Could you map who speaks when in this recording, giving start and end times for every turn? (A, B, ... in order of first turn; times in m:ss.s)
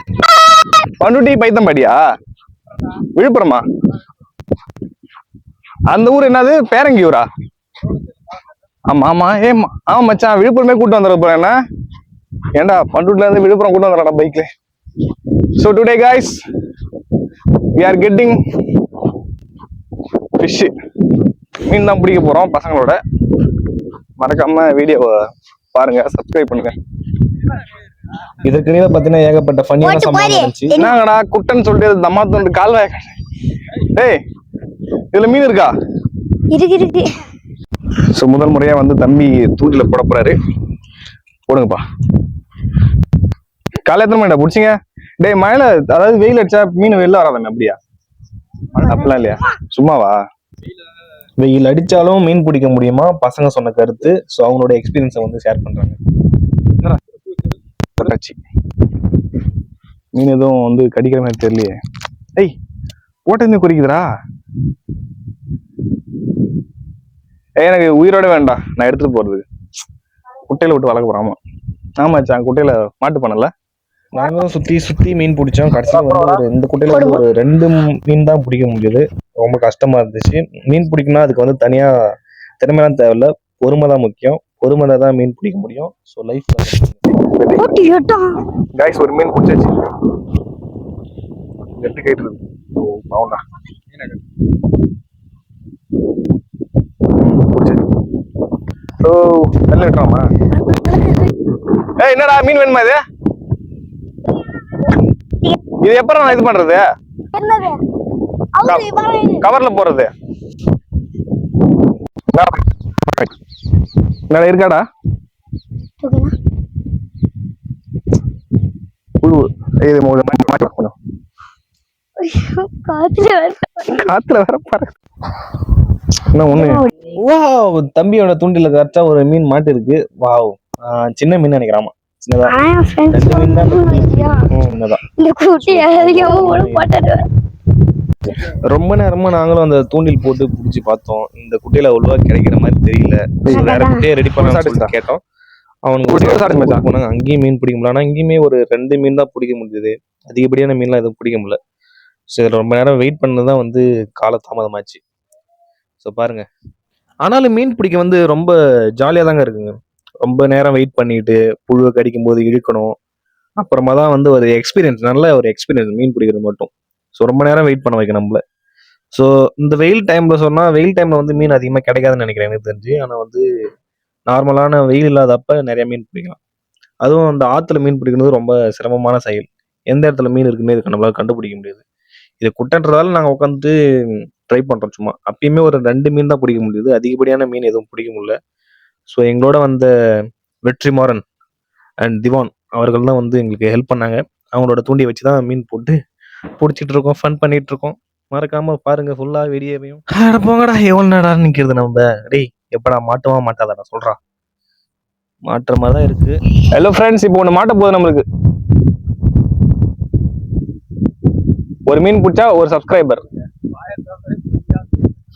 0:01.0-0:02.0 A
0:03.1-0:03.6 A
0:05.9-0:07.2 A
0:08.9-0:11.5 A
0:12.6-0:14.5 A
0:15.6-0:16.4 A
0:17.8-0:18.4 A
0:20.4-0:20.7 A
0:21.7-0:23.0 A
0:24.2-0:25.1 A
0:25.7-0:26.7 A
0:28.4-0:30.8 B
0:29.8-0:30.9 C
0:30.8-0:33.1 A
0:33.9-0:34.2 A
0:35.1-0:35.7 A
0:36.5-0:37.2 C
0:38.2-0:40.3 A
0:41.5-0:41.8 A
0:43.9-0:47.8 A
0:48.8-0:50.2 A
0:48.8-0:49.3 C
0:51.4-0:56.0 B
0:58.0-0:58.4 A
1:00.2-1:00.8 A
1:00.9-1:01.5 B
1:03.3-1:04.0 A
1:07.6-1:09.4 A
1:10.5-1:11.4 A
1:12.0-1:13.5 A
1:14.1-1:21.9 B
1:15.9-1:16.4 A
1:22.6-1:27.6 B
1:27.6-1:28.4 C
1:28.8-1:29.7 B
1:31.8-1:33.4 B
1:37.2-1:37.8 B
1:39.0-1:39.6 A
1:39.5-1:40.2 B
1:42.0-1:42.9 A
1:45.8-1:46.8 A
1:47.3-1:47.8 C
1:49.4-1:50.1 A
1:54.3-1:54.8 A
1:56.0-1:56.3 C
1:59.9-2:00.9 A
2:00.2-2:00.9 B
2:02.2-2:04.1 C
2:03.9-2:04.9 A
2:06.4-2:12.6 B
2:06.5-2:06.8 A
2:12.5-2:14.5 C
2:13.1-2:15.0 B
2:15.2-2:17.2 C
2:15.6-2:16.9 B
2:18.4-2:25.2 B
2:23.5-2:24.0 C
2:24.4-2:24.9 A
2:25.8-2:31.6 B
2:26.1-2:26.8 A
2:32.3-2:35.0 B
2:36.0-2:36.4 B
2:37.2-2:42.9 B
2:43.6-2:48.4 B
2:49.1-2:53.4 B
2:54.3-2:56.4 B
2:57.0-3:01.8 B
3:02.4-3:03.7 B
3:04.5-3:08.3 B
3:09.1-3:09.9 B
3:10.6-3:11.2 B
3:12.0-3:15.9 B
3:16.6-3:24.2 B
3:25.4-3:26.4 B
3:26.7-3:28.2 A
3:31.9-3:33.2 A